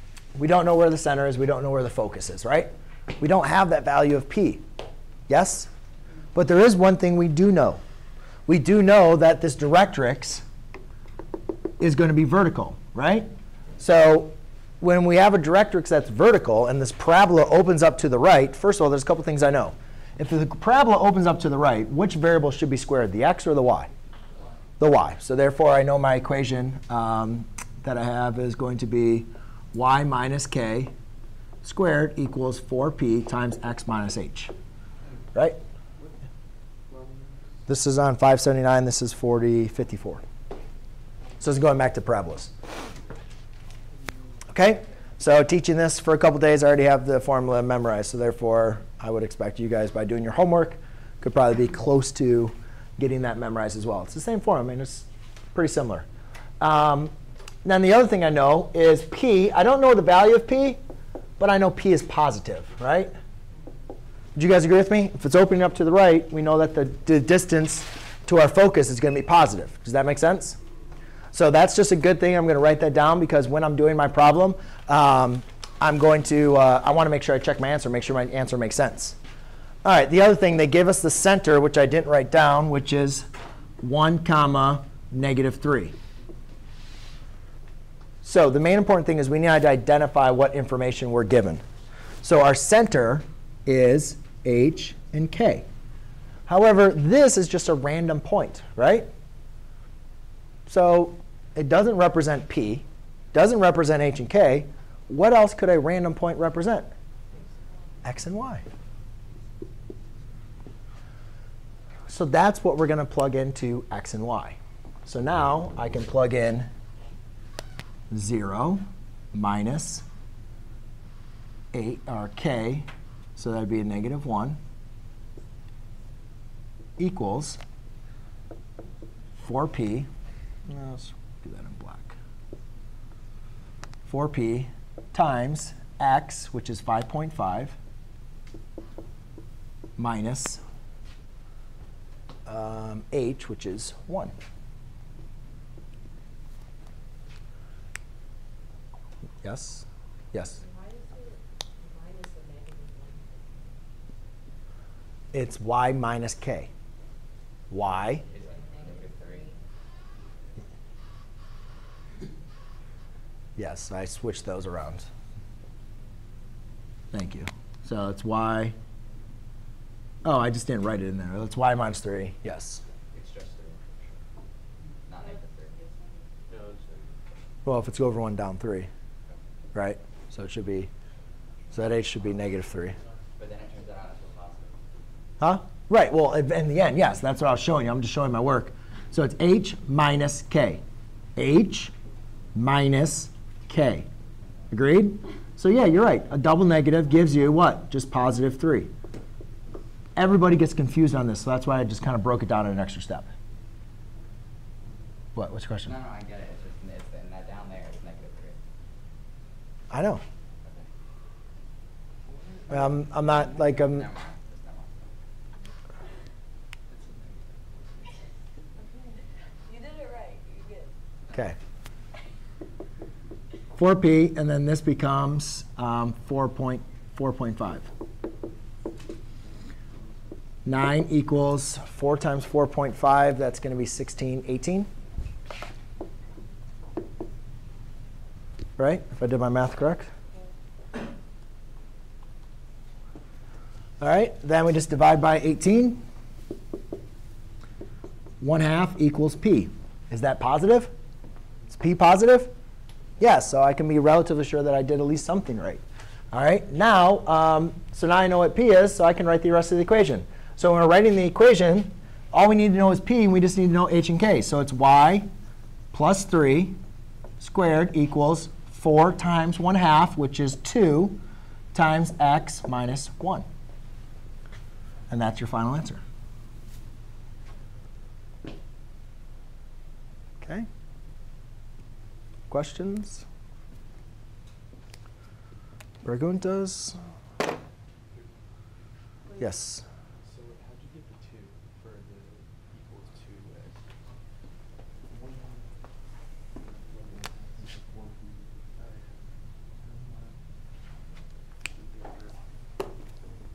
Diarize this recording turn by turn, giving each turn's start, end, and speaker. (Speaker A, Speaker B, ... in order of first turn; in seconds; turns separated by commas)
Speaker A: 0.4-4.6, Speaker A: 5.3-5.7, Speaker A: 6.3-7.8, Speaker A: 8.5-10.4, Speaker A: 11.8-13.3, Speaker A: 13.8-23.9, Speaker A: 24.8-30.9, Speaker A: 31.6-34.5, Speaker A: 35.3-35.6, Speaker B: 36.9-37.5, Speaker A: 37.7-40.2, Speaker A: 41.4-42.5, Speaker A: 44.5-56.1, Speaker A: 56.6-57.1, Speaker A: 57.6-60.8, Speaker A: 61.4-63.1, Speaker A: 64.4-70.6, Speaker A: 71.3-79.2, Speaker A: 79.8-83.2, Speaker A: 83.8-85.9, Speaker A: 88.2-91.6, Speaker A: 92.2-95.7, Speaker A: 96.5-99.1, Speaker A: 100.7-106.9, Speaker A: 108.0-108.6, Speaker A: 112.1-116.7, Speaker A: 118.1-118.8, Speaker A: 119.3-120.0, Speaker A: 121.7-124.6, Speaker A: 127.0-127.6, Speaker A: 129.4-130.1, Speaker A: 130.7-132.2, Speaker A: 134.1-137.8, Speaker A: 140.0-140.6, Speaker A: 142.5-144.3, Speaker A: 149.4-150.6, Speaker C: 150.6-153.7, Speaker A: 155.3-156.7, Speaker A: 157.7-158.2, Speaker D: 158.2-159.6, Speaker C: 158.3-159.6, Speaker A: 163.6-165.1, Speaker A: 167.1-168.7, Speaker A: 170.2-172.8, Speaker D: 173.1-174.1, Speaker D: 175.1-175.8, Speaker C: 175.2-176.4, Speaker B: 176.5-177.1, Speaker A: 177.7-178.9, Speaker A: 179.7-180.9, Speaker A: 181.7-183.0, Speaker D: 183.4-184.8, Speaker A: 185.4-190.8, Speaker A: 191.4-191.9, Speaker A: 192.6-194.1, Speaker A: 194.7-198.9, Speaker A: 200.2-203.3, Speaker A: 205.4-206.0, Speaker D: 205.8-208.6, Speaker A: 209.9-210.2, Speaker D: 210.6-210.9, Speaker B: 212.4-212.8, Speaker A: 212.7-214.1, Speaker D: 213.5-215.1, Speaker D: 217.1-217.4, Speaker C: 218.8-220.9, Speaker A: 223.8-227.9, Speaker A: 230.7-234.9, Speaker A: 238.8-240.1, Speaker A: 244.0-246.0, Speaker A: 248.4-250.9, Speaker A: 251.7-252.5, Speaker A: 253.2-265.3, Speaker A: 265.9-266.8, Speaker A: 267.4-271.2, Speaker A: 271.7-273.5, Speaker A: 275.1-276.0, Speaker A: 280.4-280.7, Speaker A: 282.5-283.2, Speaker A: 286.0-287.0, Speaker B: 288.1-288.4, Speaker C: 289.3-289.6, Speaker A: 289.4-289.8, Speaker B: 290.2-293.9, Speaker B: 295.1-295.6, Speaker B: 296.9-298.1, Speaker B: 298.8-299.2, Speaker B: 299.8-300.3, Speaker B: 301.7-302.4